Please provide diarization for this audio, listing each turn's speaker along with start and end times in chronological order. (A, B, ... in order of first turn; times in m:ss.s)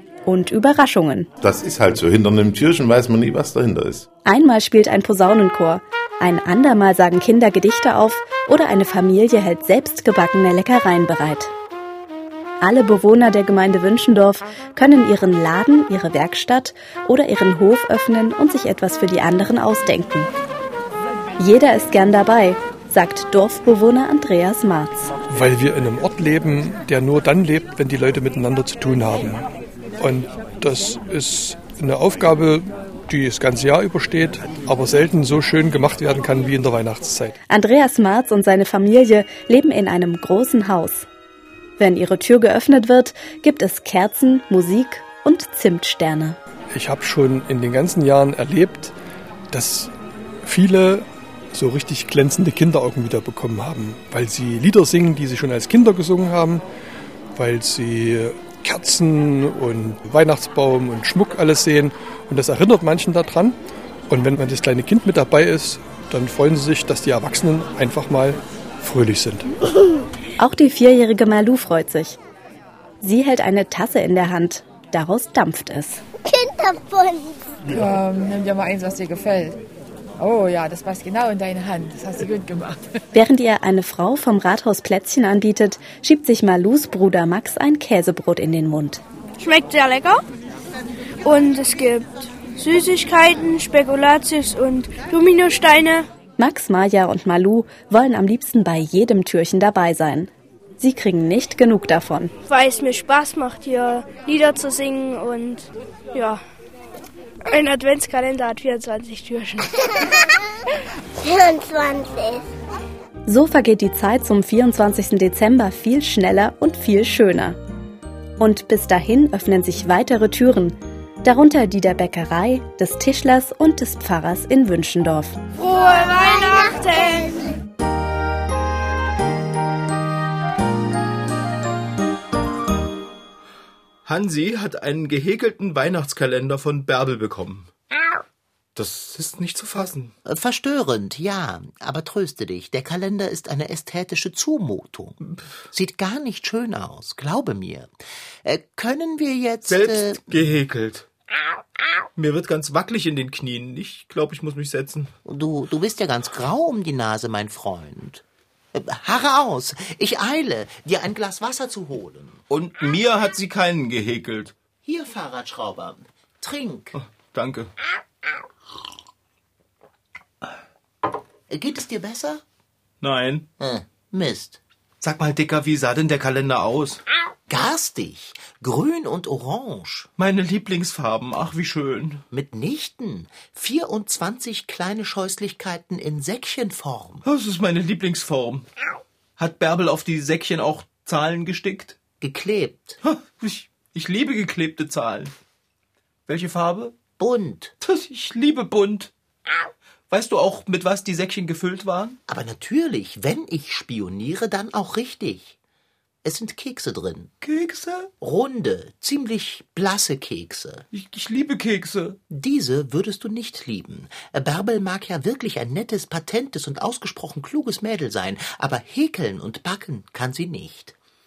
0:00.2-0:01.3 A
0:01.4-0:04.1 B
0:04.2-0:11.5 A
0:12.6-0:20.3 A
0:21.4-0:25.1 A
0:25.3-0:29.4 C
0:30.0-0:37.3 C
0:37.5-0:41.1 A
0:41.8-0:46.4 A
0:46.7-0:48.9 C
0:49.5-0:49.9 C
0:50.4-0:56.6 C
0:57.3-1:03.6 C
1:04.1-1:09.5 C
1:10.4-1:12.2 A
1:13.0-1:16.0 A
1:16.4-1:17.2 D
1:17.6-1:19.6 E
1:20.2-1:23.0 E
1:23.1-1:29.0 A
1:29.4-1:30.2 F
1:31.2-1:36.0 F
1:36.4-1:42.3 A
1:42.5-1:46.4 F
1:47.5-1:49.8 F
1:51.3-1:52.4 D
1:53.2-1:57.6 A
1:58.4-2:05.4 A
2:05.6-2:07.5 F
2:14.0-2:17.7 G
2:18.8-2:20.1 G
2:20.2-2:25.2 H
2:25.7-2:27.9 H
2:28.4-2:30.2 H
2:29.7-2:31.1 G
2:32.2-2:35.1 G
2:35.2-2:42.4 H
2:42.5-2:44.5 G
2:44.8-2:47.0 H
2:46.9-2:47.7 G
2:51.5-2:52.4 H
2:53.0-2:53.5 G
2:53.6-2:54.6 H
2:55.0-2:57.0 G
2:57.5-3:00.1 H
3:00.2-3:02.2 G
3:02.3-3:07.2 H
3:07.2-3:08.6 G
3:09.4-3:12.0 G
3:12.2-3:13.0 H
3:13.0-3:15.3 G
3:16.3-3:17.0 G
3:17.2-3:17.7 H
3:17.8-3:19.1 G
3:20.1-3:22.2 G
3:22.3-3:25.6 H
3:26.2-3:27.3 H
3:27.4-3:28.1 G
3:28.2-3:30.8 H
3:30.9-3:32.2 G
3:32.3-3:40.9 H